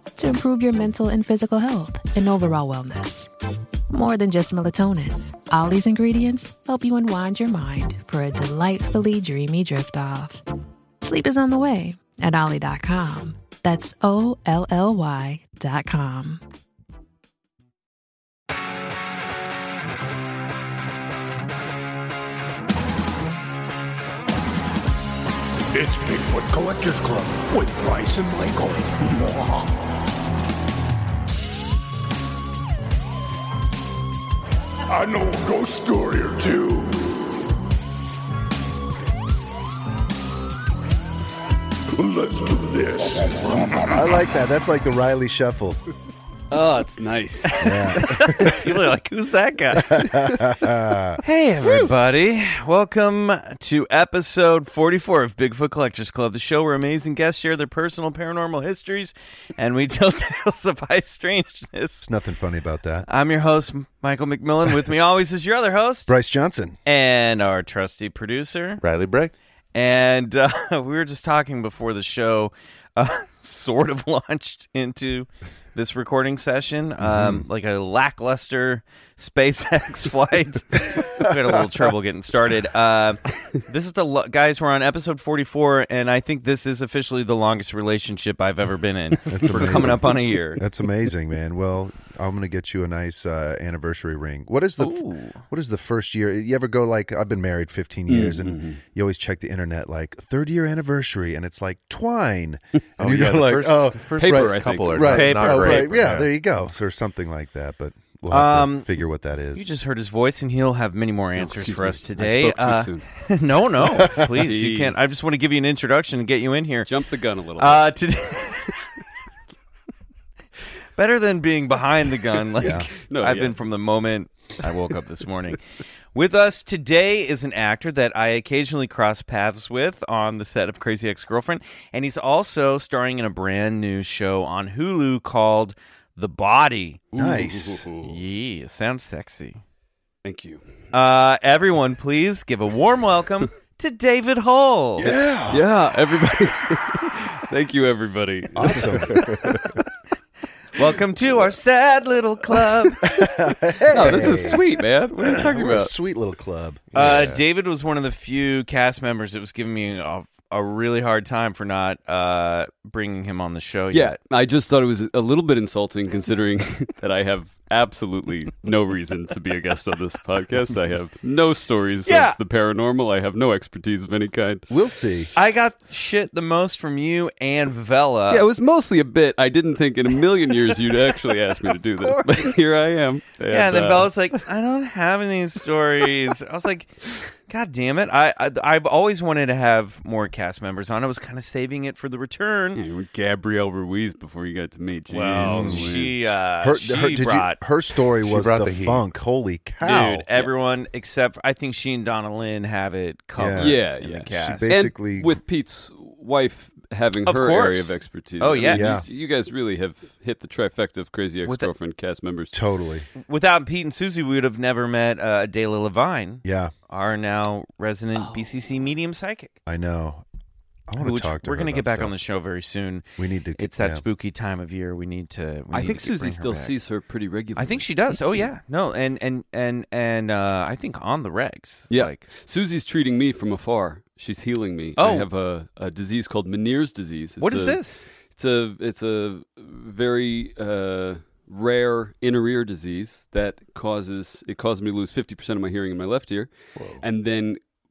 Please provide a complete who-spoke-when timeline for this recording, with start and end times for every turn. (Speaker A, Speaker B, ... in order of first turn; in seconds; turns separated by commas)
Speaker A: 0.2-3.3, Speaker A: 3.9-10.4, Speaker A: 11.0-16.4, Speaker B: 25.7-29.7, Speaker B: 34.9-37.2, Speaker B: 41.9-44.1, Speaker C: 43.9-45.8, Speaker D: 46.5-47.8, Speaker E: 47.5-50.4, Speaker C: 47.6-48.6, Speaker C: 49.8-51.2, Speaker E: 51.2-62.1, Speaker C: 62.0-63.1, Speaker E: 63.1-66.1, Speaker C: 66.1-66.8, Speaker E: 66.8-68.8, Speaker F: 68.8-69.3, Speaker E: 69.7-90.6, Speaker C: 77.0-77.4, Speaker C: 89.3-109.7, Speaker E: 94.8-95.4, Speaker D: 98.1-98.8, Speaker F: 103.0-106.3, Speaker D: 104.2-106.0, Speaker E: 105.1-105.6, Speaker E: 108.3-108.9, Speaker E: 109.5-116.9, Speaker D: 111.4-113.1, Speaker C: 114.0-114.3, Speaker D: 114.2-115.0, Speaker D: 116.9-118.0, Speaker E: 117.6-118.8, Speaker E: 121.0-125.6, Speaker C: 122.6-122.9, Speaker D: 122.6-123.6, Speaker E: 126.1-137.0, Speaker D: 137.1-138.2, Speaker C: 137.1-137.8, Speaker E: 138.0-139.6, Speaker D: 140.2-140.6, Speaker E: 140.9-145.1, Speaker C: 145.0-145.7, Speaker D: 145.5-149.5, Speaker C: 148.6-149.4, Speaker E: 150.7-153.2, Speaker C: 153.0-154.7, Speaker D: 153.9-155.9, Speaker C: 155.2-156.9, Speaker F: 156.9-157.4, Speaker E: 156.9-164.2, Speaker D: 163.9-174.7, Speaker E: 172.1-172.4, Speaker C: 174.7-175.3, Speaker E: 175.4-178.4, Speaker D: 178.3-184.1, Speaker E: 183.5-187.0, Speaker E: 187.5-192.8, Speaker D: 192.8-196.2, Speaker E: 195.1-197.6, Speaker C: 195.4-196.0, Speaker C: 196.6-200.3, Speaker F: 198.2-199.1, Speaker E: 199.8-204.8, Speaker C: 203.4-203.8, Speaker D: 203.6-212.6, Speaker C: 204.4-205.4, Speaker E: 207.2-209.0, Speaker C: 208.6-209.1, Speaker E: 211.4-211.7, Speaker C: 212.5-213.1, Speaker E: 213.2-219.6, Speaker C: 216.4-216.7, Speaker C: 219.7-220.2, Speaker C: 220.9-222.2, Speaker E: 221.0-226.7, Speaker C: 223.2-224.1, Speaker D: 225.7-228.4, Speaker E: 227.6-232.2, Speaker D: 231.9-247.6, Speaker E: 235.0-235.3, Speaker E: 237.4-238.1, Speaker C: 246.8-247.0